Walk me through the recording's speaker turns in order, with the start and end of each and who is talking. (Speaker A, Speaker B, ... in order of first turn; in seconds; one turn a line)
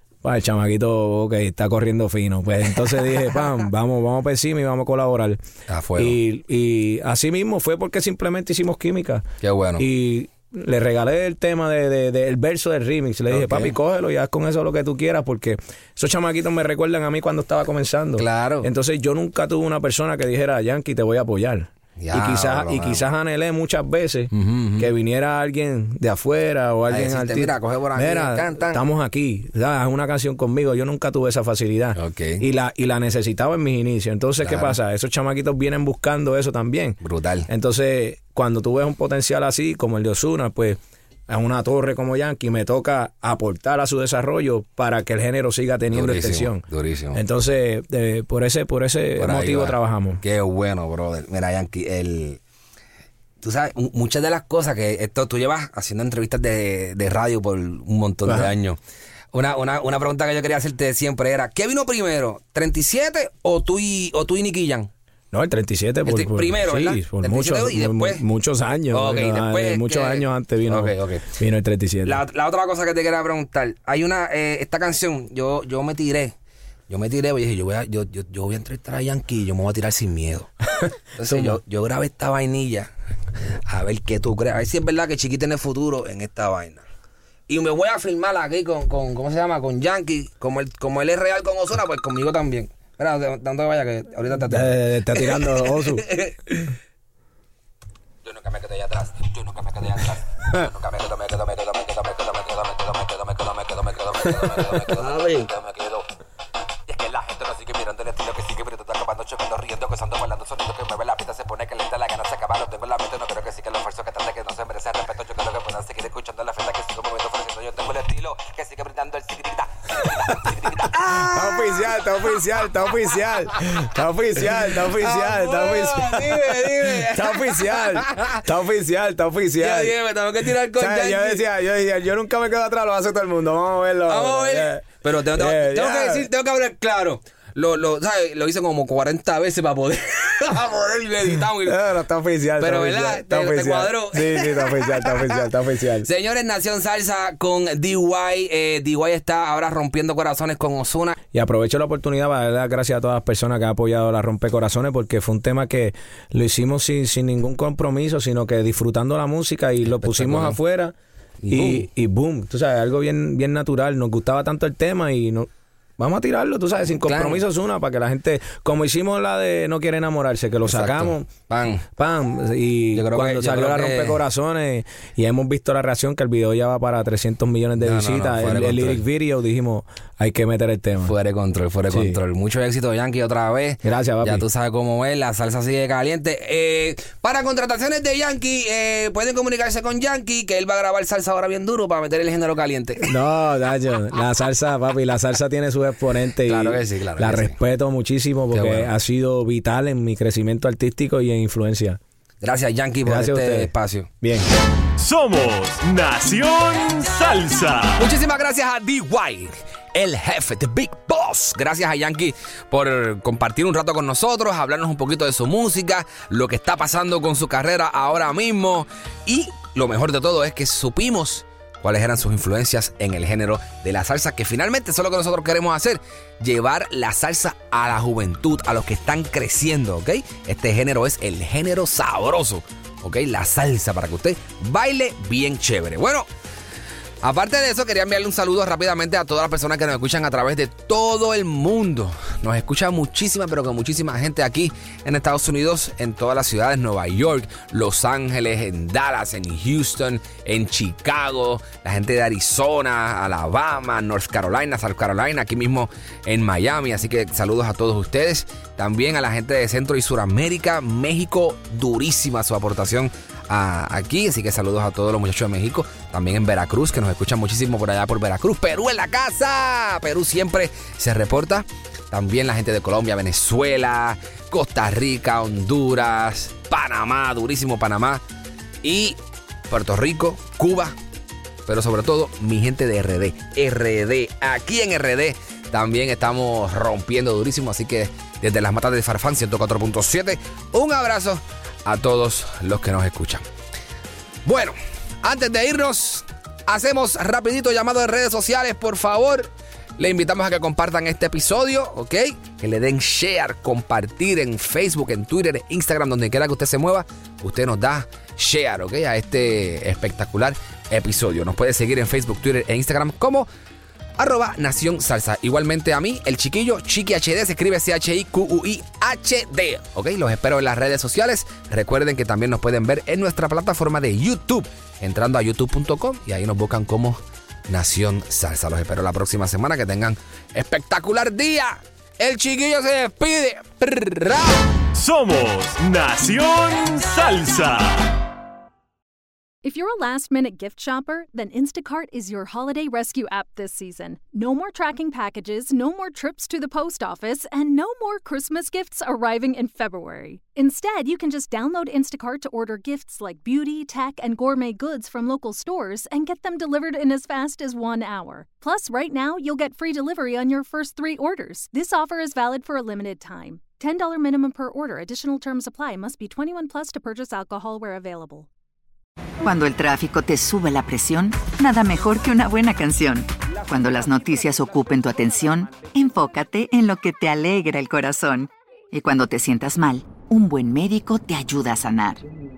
Speaker A: 0.2-5.4
Speaker B: 3.1-3.5
Speaker B: 5.7-6.2
Speaker A: 6.0-9.3
Speaker B: 9.4-9.8
Speaker A: 9.8-50.2
Speaker B: 13.3-13.8
Speaker B: 18.2-18.7
Speaker B: 22.0-23.1
Speaker B: 24.3-24.9
Speaker B: 26.9-28.8
Speaker B: 32.0-32.5
Speaker B: 34.4-34.8
Speaker B: 37.0-37.5
Speaker B: 45.9-47.2
Speaker B: 49.2-52.4
Speaker B: 53.4-58.8
Speaker A: 58.3-58.5
Speaker B: 59.3-64.9
Speaker A: 65.3-72.2
Speaker B: 66.0-68.2
Speaker B: 68.9-71.3
Speaker B: 72.0-76.3
Speaker B: 76.9-80.6
Speaker B: 81.2-82.9
Speaker A: 81.3-81.6
Speaker B: 83.7-86.8
Speaker B: 87.5-96.4
Speaker A: 94.4-96.2
Speaker B: 98.2-106.0
Speaker B: 106.9-123.2
Speaker A: 121.0-129.9
Speaker B: 124.4-128.3
Speaker B: 129.6-131.4
Speaker A: 130.7-136.3
Speaker B: 134.1-141.8
Speaker A: 141.6-146.1
Speaker B: 142.6-145.4
Speaker B: 146.0-151.2
Speaker A: 151.3-160.9
Speaker B: 159.8-160.6
Speaker B: 161.4-161.9
Speaker A: 161.5-171.3
Speaker B: 167.1-167.4
Speaker B: 170.6-171.8
Speaker A: 172.0-181.1
Speaker B: 172.9-174.2
Speaker B: 177.8-179.0
Speaker B: 181.0-193.2
Speaker A: 181.9-182.2
Speaker A: 183.8-184.4
Speaker A: 193.0-202.0
Speaker B: 196.4-197.6
Speaker B: 198.5-198.9
Speaker B: 202.4-204.1
Speaker A: 203.1-204.5
Speaker C: 205.0-208.0
Speaker B: 208.0-236.3
Speaker B: 237.2-278.2
Speaker B: 278.8-279.2
Speaker B: 279.7-280.9
Speaker B: 281.7-293.4
Speaker B: 294.4-313.5
Speaker B: 314.2-334.7
Speaker C: 334.9-338.2
Speaker D: 339.6-368.5
Speaker E: 369.4-382.2